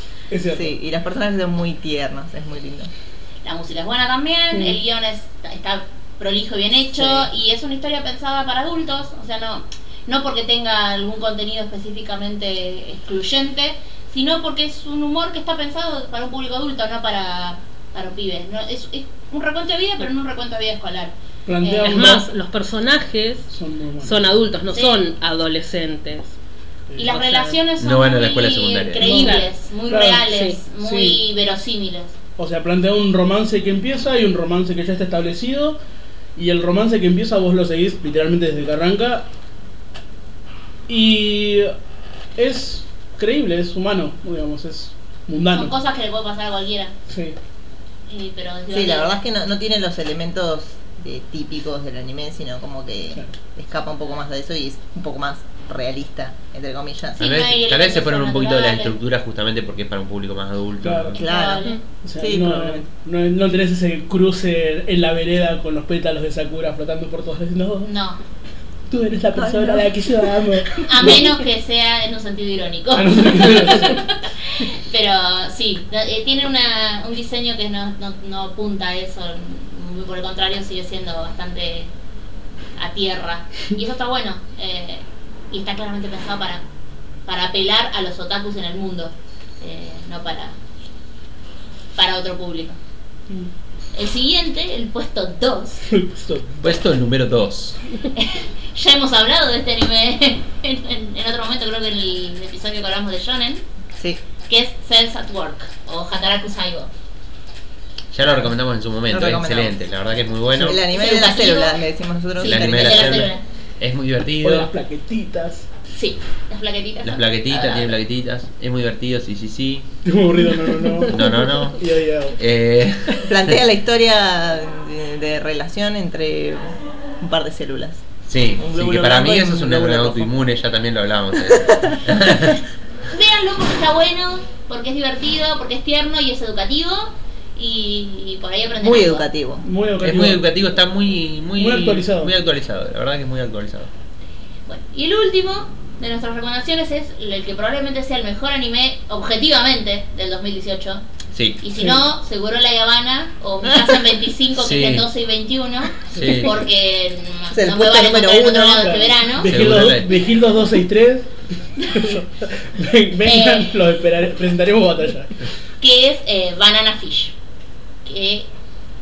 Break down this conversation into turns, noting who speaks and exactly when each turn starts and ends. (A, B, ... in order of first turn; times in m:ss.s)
0:00.3-0:00.7 A
0:00.5-0:02.9 B
0:03.4-0:22.2 C
0:07.0-0:07.2 A
0:21.4-0:22.2 A
0:21.8-0:23.5 D
0:23.5-0:24.2 A
0:24.0-0:26.3 D
0:24.7-0:25.0 C
0:26.9-0:27.5 A
0:27.0-0:32.1 C
0:27.8-0:29.1 E
0:29.0-0:29.5 D
0:29.0-0:29.4 A
0:29.9-0:31.2 A
0:32.4-0:35.8 A
0:36.4-0:39.3 A
0:40.9-0:41.7 A
0:42.4-0:45.8 A
0:45.4-0:46.9 C
0:47.1-0:47.4 A
0:48.1-0:49.2 C
0:48.7-0:57.3 B
0:57.2-0:58.9 C
0:57.2-1:01.2 E
1:00.8-1:01.2 A
1:01.1-1:01.7 B
1:01.2-1:01.8 C
1:02.0-1:07.9 A
1:02.2-1:02.8 B
1:07.8-1:08.2 C
1:08.9-1:11.2 A
1:09.3-1:10.8 B
1:10.8-1:21.9 C
1:12.9-1:14.0 A
1:22.8-1:26.6 C
1:27.2-1:30.6 C
1:32.0-1:32.8 C
1:33.9-1:35.8 C
1:35.9-1:36.8 A
1:36.6-1:37.8 E
1:38.1-1:43.6 C
1:44.4-1:46.9 C
1:48.1-1:50.8 E
1:49.1-1:49.8 B
1:50.5-1:53.3 B
1:50.9-1:51.8 C
1:52.4-1:53.4 C
1:52.4-1:54.7 E
1:54.4-1:55.7 A
1:55.9-1:58.0 C
1:57.0-1:59.8 E
2:00.0-2:01.2 A
2:01.1-2:01.8 E
2:01.7-2:02.4 A
2:02.4-2:03.4 E
2:03.2-2:08.0 B
2:08.2-2:12.6 E
2:08.6-2:10.4 B
2:11.6-2:12.0 B
2:13.1-2:19.3 C
2:18.8-2:19.6 B
2:19.6-2:20.4 A
2:20.0-2:23.9 E
2:21.6-2:22.3 A
2:24.7-2:31.0 C
2:31.3-2:31.6 E
2:31.6-2:39.6 C
2:31.8-2:32.0 A
2:33.6-2:34.0 B
2:34.5-2:35.1 E
2:36.1-2:36.6 E
2:36.1-2:36.5 A
2:37.5-2:39.2 B
2:38.8-2:45.4 A
2:39.4-2:40.1 E
2:43.2-2:43.7 C
2:45.8-2:47.3 C
2:48.0-2:48.5 C